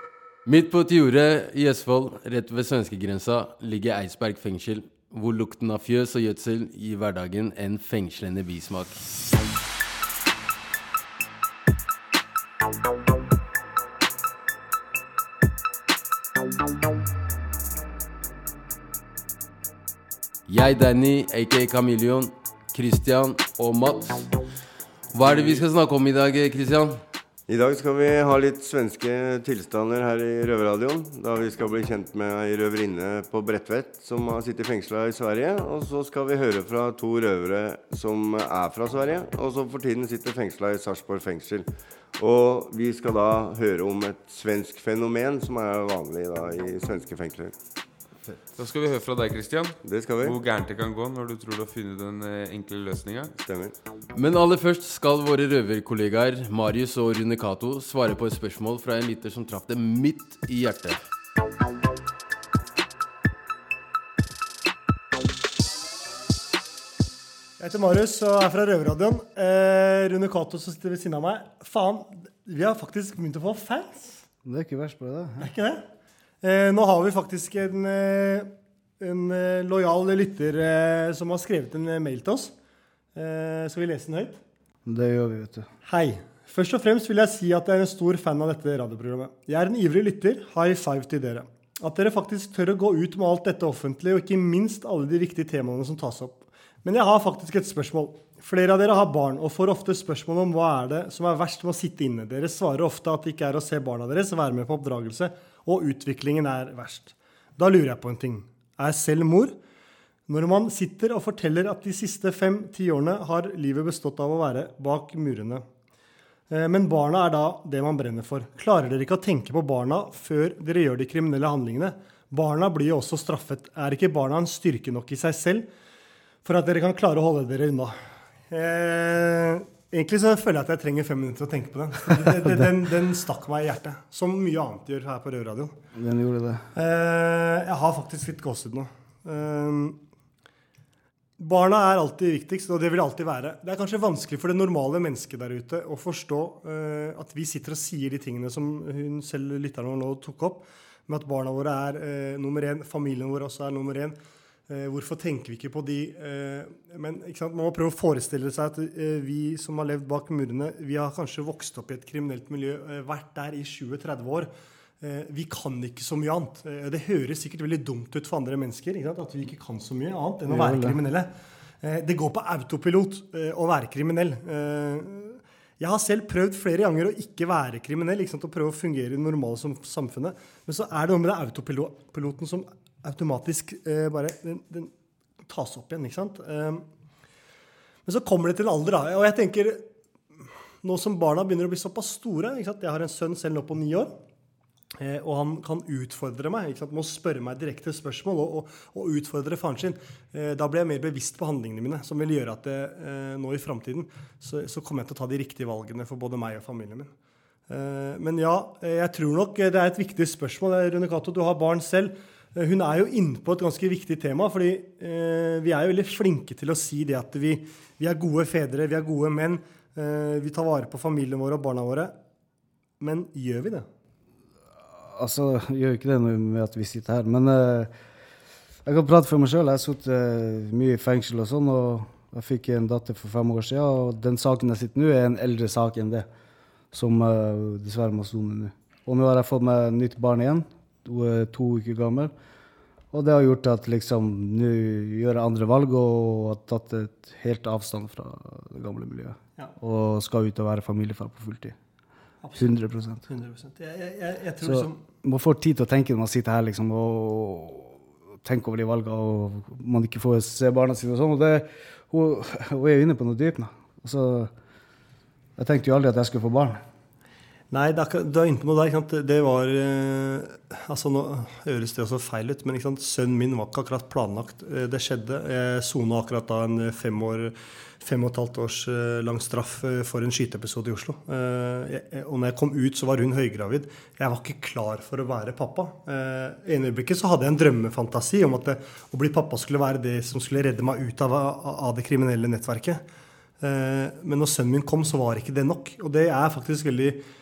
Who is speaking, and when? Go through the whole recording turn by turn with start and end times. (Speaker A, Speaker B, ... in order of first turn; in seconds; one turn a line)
Speaker A: 0.5-9.0
Speaker A: 20.5-24.3
Speaker A: 25.1-27.0
Speaker B: 25.3-25.6
Speaker C: 27.5-47.5
Speaker B: 48.5-53.3
Speaker C: 49.8-50.4
Speaker C: 53.4-53.7
Speaker A: 54.1-61.0
Speaker D: 67.6-74.2
Speaker E: 74.4-75.5
Speaker D: 75.4-75.8
Speaker D: 76.4-82.5
Speaker D: 83.1-84.4
Speaker E: 84.8-85.7
Speaker D: 85.8-109.5
Speaker D: 110.3-115.6
Speaker D: 116.5-125.7
Speaker D: 126.4-135.8
Speaker E: 132.4-132.7
Speaker E: 135.9-136.6
Speaker D: 136.7-140.0
Speaker D: 141.4-154.2
Speaker D: 154.7-164.5
Speaker D: 165.0-171.3
Speaker E: 170.5-171.0
Speaker D: 171.8-184.9
Speaker D: 185.4-186.8
Speaker D: 188.1-189.8
Speaker D: 190.8-194.1
Speaker D: 195.0-207.1
Speaker D: 207.7-222.1
Speaker D: 223.0-223.8
Speaker E: 225.1-227.9
Speaker E: 228.8-236.3
Speaker E: 236.9-242.3
Speaker E: 243.1-251.8
Speaker D: 252.4-252.7
Speaker E: 252.6-253.2
Speaker D: 253.3-255.0
Speaker E: 254.6-264.5
Speaker E: 265.6-266.8
Speaker D: 267.7-293.0
Speaker D: 293.6-297.2